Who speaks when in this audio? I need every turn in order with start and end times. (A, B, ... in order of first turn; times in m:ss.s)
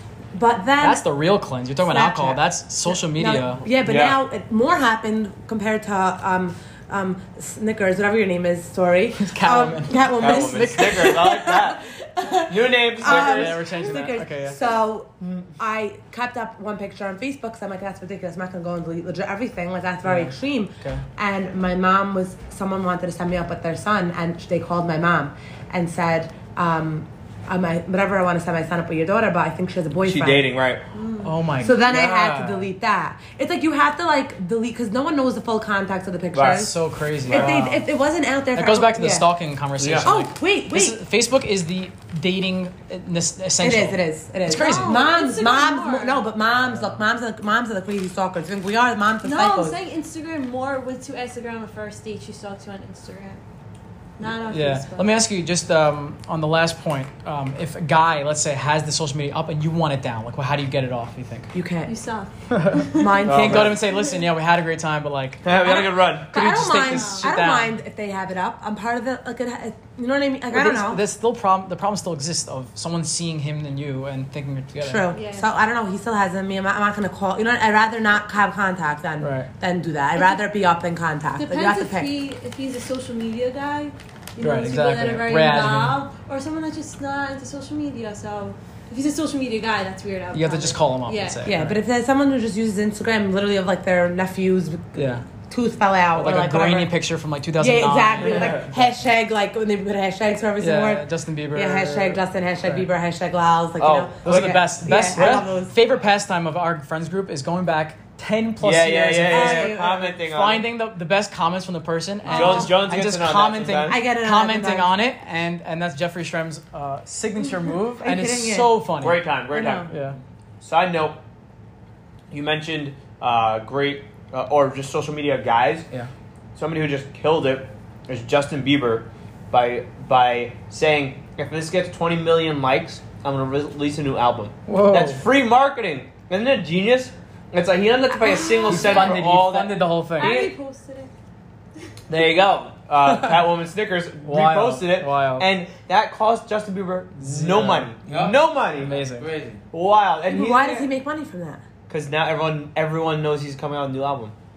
0:00.3-0:01.0 A
0:00.8-0:03.7 B
0:01.8-0:30.5 A
0:03.8-0:04.2 C
0:09.2-0:11.3 B
0:10.2-0:11.8 C
0:12.4-0:13.6 C
0:13.0-0:14.6 B
0:20.0-0:21.0 B
0:30.0-0:30.8 C
0:31.0-0:31.3 D
0:31.2-0:32.7 B
0:31.6-0:36.7 A
0:36.3-0:36.7 C
0:36.5-0:37.9 B
0:37.2-0:37.6 C
0:37.3-0:39.3 A
0:38.6-0:45.0 B
0:39.8-0:40.1 C
0:40.0-0:41.0 A
0:43.6-0:49.8 A
0:44.5-0:46.2 D
0:49.2-0:53.4 D
0:54.2-0:55.2 D
0:54.5-1:01.5 B
1:01.5-1:01.9 A
1:01.9-1:03.3 D
1:02.5-1:07.8 B
1:03.0-1:03.8 A
1:03.3-1:03.8 C
1:05.4-1:06.3 C
1:05.5-1:11.0 A
1:06.9-1:07.3 D
1:10.5-1:15.1 B
1:14.8-1:22.1 A
1:15.1-1:15.5 D
1:19.2-1:19.5 B
1:21.4-1:31.5 D
1:24.4-1:26.0 B
1:30.3-1:31.8 B
1:31.4-1:36.9 A
1:35.0-1:35.3 B
1:36.2-1:38.7 B
1:37.6-1:45.8 A
1:40.6-1:42.8 B
1:43.8-1:45.4 C
1:44.2-1:59.3 B
1:48.6-1:50.7 C
1:49.3-1:50.2 A
1:52.3-1:52.8 A
1:52.3-1:54.0 C
1:53.9-1:54.9 A
1:57.7-1:58.8 A
1:59.0-1:59.9 C
1:59.5-1:59.9 A
1:59.9-2:00.2 B
2:00.6-2:01.2 C
2:02.3-2:05.9 C
2:06.6-2:20.5 C
2:14.7-2:15.2 B
2:18.2-2:19.2 D
2:18.7-2:20.4 B
2:20.2-2:21.1 D
2:22.1-2:29.0 C
2:23.0-2:23.4 B
2:24.2-2:25.5 B
2:27.2-2:29.6 E
2:27.3-2:27.9 B
2:28.8-2:29.3 B
2:29.7-2:30.9 C
2:30.3-2:31.6 A
2:31.9-2:34.3 C